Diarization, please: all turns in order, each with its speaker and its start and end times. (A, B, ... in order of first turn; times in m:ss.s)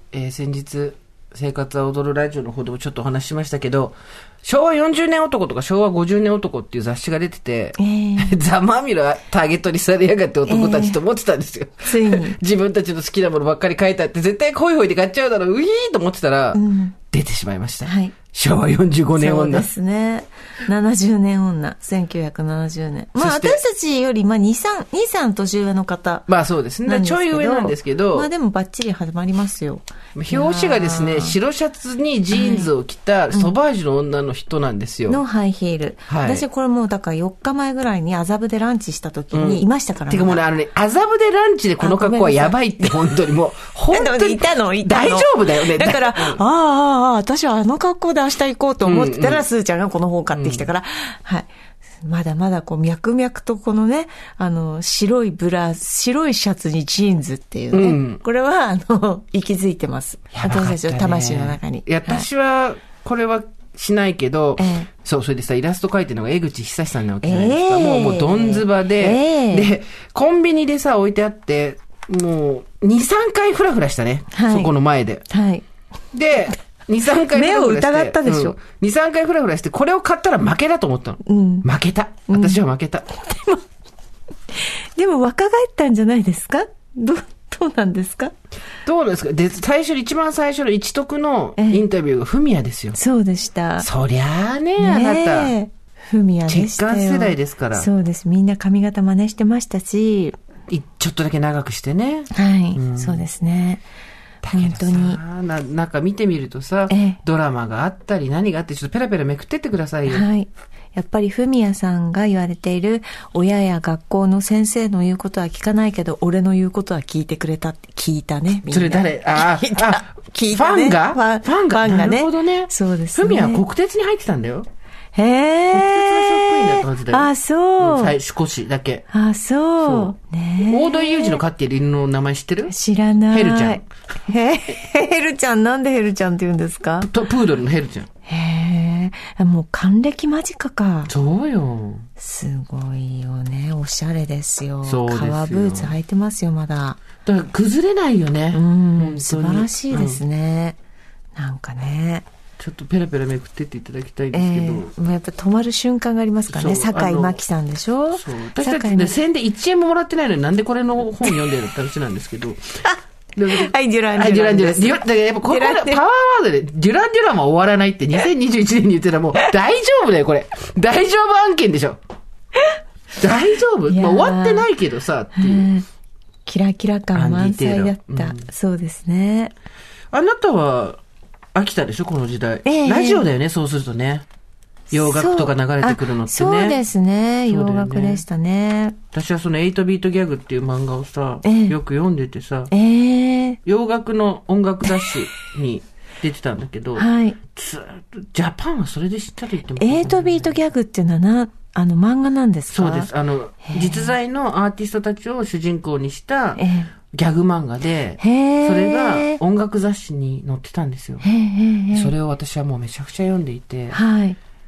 0:00.1-0:19.7 A
0:07.8-0:08.4 B
0:10.5-0:11.0 B
0:11.8-0:12.4 B
0:16.5-0:17.0 B
0:17.8-0:18.2 B
0:19.2-0:26.3 B
0:23.2-0:23.6 A
0:26.3-0:28.3 A
0:26.9-0:31.4 B
0:30.2-0:35.2 A
0:32.3-0:32.7 B
0:35.1-0:40.4 B
0:36.1-0:36.4 A
0:39.3-0:46.4 A
0:41.8-0:43.1 B
0:43.9-0:51.5 B
0:48.8-0:49.4 A
0:50.3-0:50.7 A
0:52.0-1:02.3 B
0:57.7-0:58.2 A
1:00.3-1:15.2 A
1:04.6-1:04.9 B
1:07.2-1:09.7 B
1:14.3-1:14.7 B
1:15.3-1:15.6 B
1:16.1-1:23.1 A
1:17.3-1:18.6 B
1:21.2-1:21.7 B
1:22.3-1:22.6 B
1:23.2-1:23.6 B
1:24.6-1:28.3 B
1:28.8-1:33.0 A
1:31.6-1:31.8 B
1:33.0-1:33.9 B
1:33.8-1:35.6 A
1:34.8-1:40.4 B
1:36.5-1:37.9 A
1:40.7-1:43.2 A
1:42.3-1:43.8 B
1:44.4-1:50.3 A
1:44.5-1:45.2 B
1:46.9-1:47.2 B
1:50.1-2:03.6 B
1:58.7-2:04.7 A
2:05.2-2:08.2 B
2:05.7-2:09.0 A
2:09.1-2:11.4 B
2:09.8-2:12.7 A
2:12.7-2:17.1 B
2:13.3-2:13.8 A
2:17.0-2:18.1 A
2:18.3-2:21.1 B
2:21.1-2:22.1 A
2:22.2-2:27.0 B
2:24.8-2:26.0 A
2:27.2-2:30.2 A
2:28.5-2:30.8 B
2:31.4-2:32.2 B
2:32.6-2:34.9 A
2:34.3-2:39.2 B
2:36.5-2:37.4 A
2:38.1-2:42.8 A
2:42.8-2:46.0 B
2:43.4-2:52.0 A
2:53.2-2:55.7 A
2:53.9-2:54.7 B
2:55.4-2:55.8 B
2:56.5-2:59.5 B
2:57.2-2:58.5 A
3:00.1-3:01.0 A
3:01.5-3:04.2 A
3:02.6-3:03.2 B
3:04.9-3:06.8 A
3:05.0-3:09.0 B
3:07.5-3:08.2 A
3:09.1-3:12.7 A
3:11.4-3:11.8 B
3:12.7-3:13.6 B
3:13.7-3:20.6 A
3:17.0-3:17.4 B
3:19.8-3:23.1 B
3:22.7-3:26.6 A
3:23.6-3:24.1 B
3:26.6-3:26.9 B
3:27.1-3:31.2 A
3:28.2-3:29.4 B
3:31.2-3:32.1 B
3:31.9-3:34.0 A
3:33.9-3:34.4 B